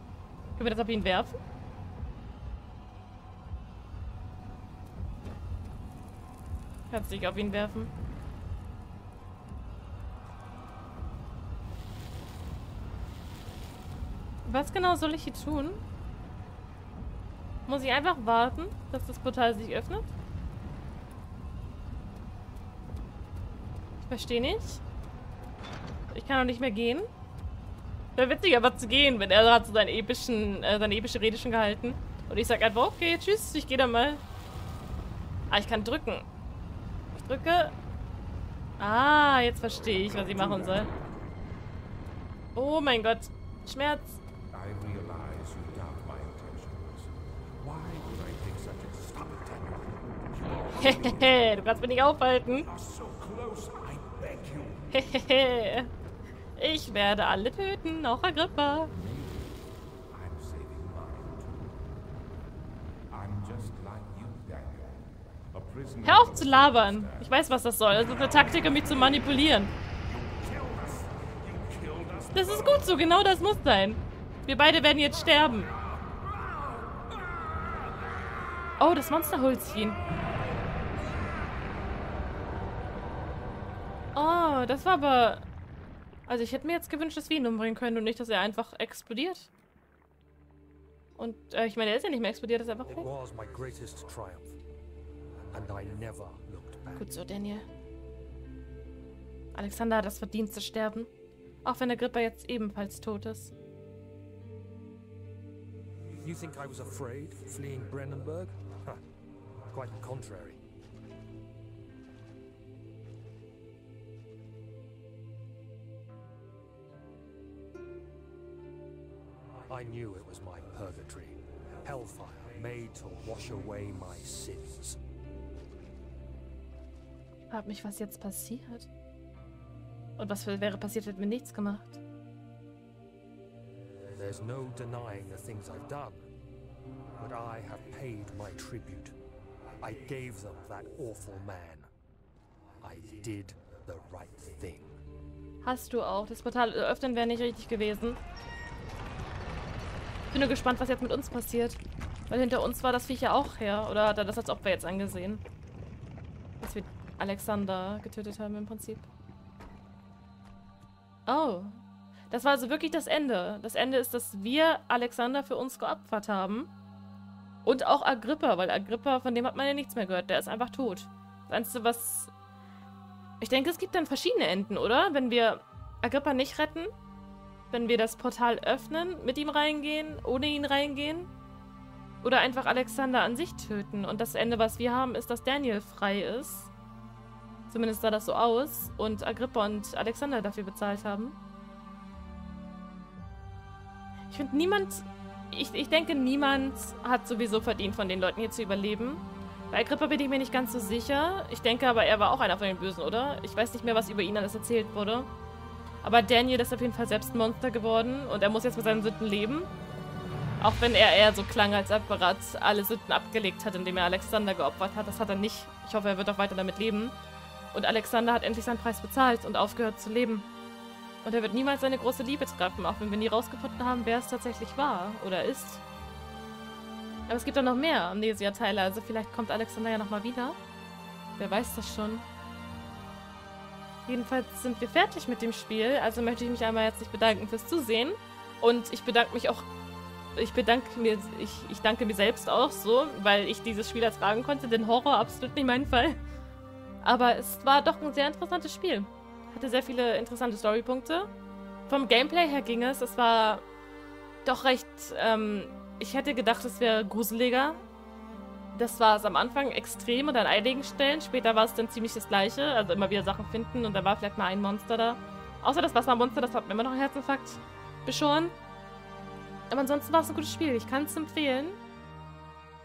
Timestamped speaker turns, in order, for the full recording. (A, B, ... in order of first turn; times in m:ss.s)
0:00.6-0:01.4 A
0:06.9-0:07.9 A
0:14.4-0:15.8 A
0:17.7-0:20.1 A
0:24.0-0:24.8 A
0:26.1-0:27.1 A
0:28.2-0:34.2 A
0:35.5-0:36.3 A
0:37.1-0:37.7 A
0:38.8-0:40.9 A
0:39.9-0:41.0 B
0:42.6-0:44.2 A
0:44.5-0:51.4 B
0:50.8-0:52.7 A
0:52.7-0:54.9 B
0:54.9-0:55.9 A
0:56.6-0:58.9 A
0:58.9-1:01.8 B
1:03.1-1:07.3 B
1:06.0-1:09.7 A
1:10.0-1:12.8 B
1:12.3-1:15.7 A
1:18.8-1:20.0 A
1:24.2-1:25.4 A
1:26.3-1:29.5 A
1:31.2-1:33.1 A
1:32.9-1:34.6 C
1:35.5-1:37.1 C
1:37.0-1:37.7 A
1:39.6-1:41.1 A
1:41.6-1:43.5 A
1:46.2-1:49.0 C
1:49.7-1:50.6 C
1:59.7-2:05.0 C
2:07.5-2:08.9 A
2:10.2-2:12.0 A
2:14.2-2:16.3 C
2:17.2-2:19.2 C
2:19.8-2:21.9 C
2:22.8-2:25.0 C
2:25.6-2:28.2 A
2:30.3-2:35.4 A
2:36.6-2:39.1 A
2:41.3-2:41.8 A
2:42.3-2:46.7 A
2:47.6-2:52.3 A
2:53.4-2:56.9 A
2:57.7-3:01.3 A
3:02.2-3:06.7 A
3:07.7-3:11.4 A
3:14.3-3:25.3 A
3:26.0-3:29.7 A
3:30.6-3:37.2 A
3:37.7-3:40.5 A
3:41.2-3:45.8 A
3:47.3-3:50.6 A
3:51.4-3:52.3 A
3:54.1-3:59.7 A
4:00.4-4:06.2 A
4:07.0-4:11.3 A
4:11.9-4:13.6 A
4:14.4-4:17.8 A
4:18.7-4:28.5 A
4:29.7-4:31.8 A